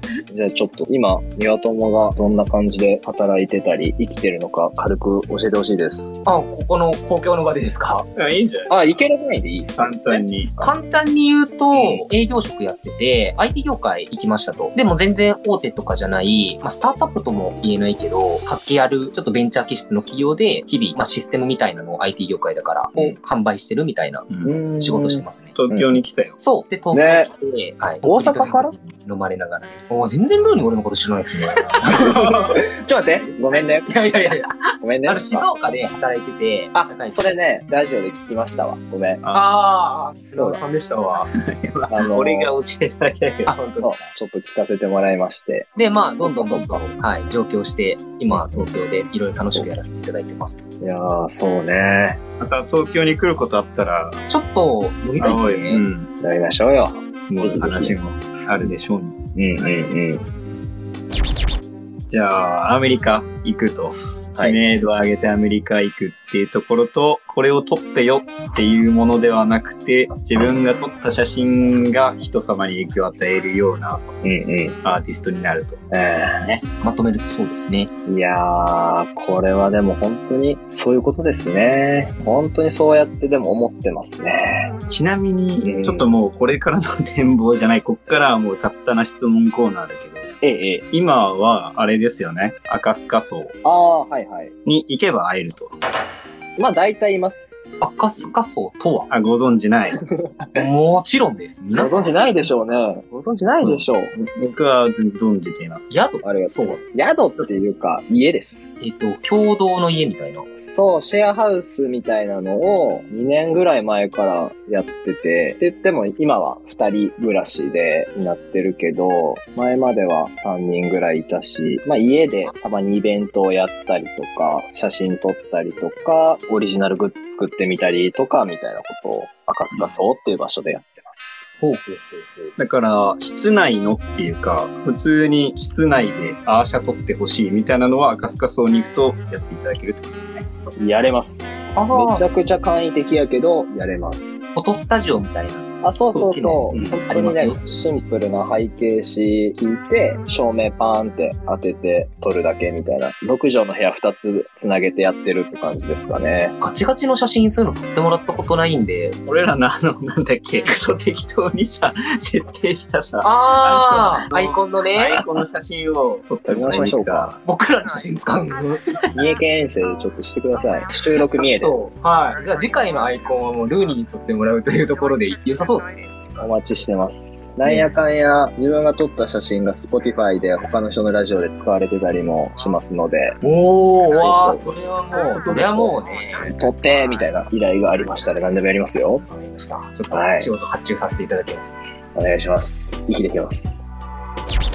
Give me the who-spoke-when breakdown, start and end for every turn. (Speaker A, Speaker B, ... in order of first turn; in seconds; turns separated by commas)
Speaker A: 0.3-6.2, Speaker B: 6.3-8.1, Speaker C: 8.2-9.0, Speaker A: 8.7-10.7, Speaker C: 9.8-10.6, Speaker B: 10.6-25.6, Speaker C: 11.7-12.1, Speaker C: 24.3-24.6, Speaker A: 24.4-26.0, Speaker C: 25.6-26.4, Speaker B: 26.4-32.6, Speaker A: 26.9-27.3, Speaker A: 28.0-28.7, Speaker A: 31.8-33.9, Speaker B: 33.5-37.4, Speaker A: 34.8-35.5, Speaker A: 36.8-39.2, Speaker B: 39.3-41.3, Speaker A: 40.4-40.6, Speaker C: 41.4-43.5, Speaker A: 41.9-42.5, Speaker B: 43.5-44.1, Speaker A: 43.8-46.9, Speaker B: 45.8-50.6, Speaker A: 50.8-52.2, Speaker C: 52.4-54.2, Speaker B: 54.3-55.8, Speaker C: 55.2-56.1, Speaker A: 56.2-58.0, Speaker C: 57.2-59.8, Speaker A: 59.4-60.2, Speaker C: 62.1-74.0, Speaker A: 74.2-74.8, Speaker C: 74.8-76.6, Speaker A: 75.9-76.4, Speaker B: 76.8-78.0, Speaker A: 78.1-84.7, Speaker C: 84.9-90.3, Speaker A: 85.6-86.1, Speaker A: 90.4-90.8, Speaker C: 90.9-93.5, Speaker A: 93.6-94.5, Speaker C: 94.7-95.8, Speaker A: 96.6-97.7, Speaker B: 97.8-99.1, Speaker C: 99.1-100.0, Speaker B: 100.6-102.5, Speaker A: 101.7-104.1, Speaker C: 103.6-105.9, Speaker B: 105.9-106.8, Speaker A: 106.2-108.7, Speaker B: 108.8-110.5, Speaker A: 110.6-131.4, Speaker B: 131.6-132.6, Speaker C: 132.6-140.5, Speaker A: 140.8-144.4, Speaker B: 141.8-142.2, Speaker B: 144.6-147.7, Speaker A: 145.8-156.6, Speaker C: 146.7-147.0, Speaker B: 156.6-159.2, Speaker C: 159.3-167.4, Speaker B: 163.2-165.3, Speaker A: 166.4-167.4, Speaker B: 167.4-168.9, Speaker A: 169.1-171.8, Speaker B: 171.3-176.4, Speaker A: 176.4-183.4, Speaker B: 177.7-178.0, Speaker B: 183.4-186.5, Speaker A: 184.1-184.7, Speaker C: 184.5-186.0, Speaker A: 186.4-189.2, Speaker B: 189.2-191.8, Speaker A: 190.1-190.5, Speaker A: 192.2-193.9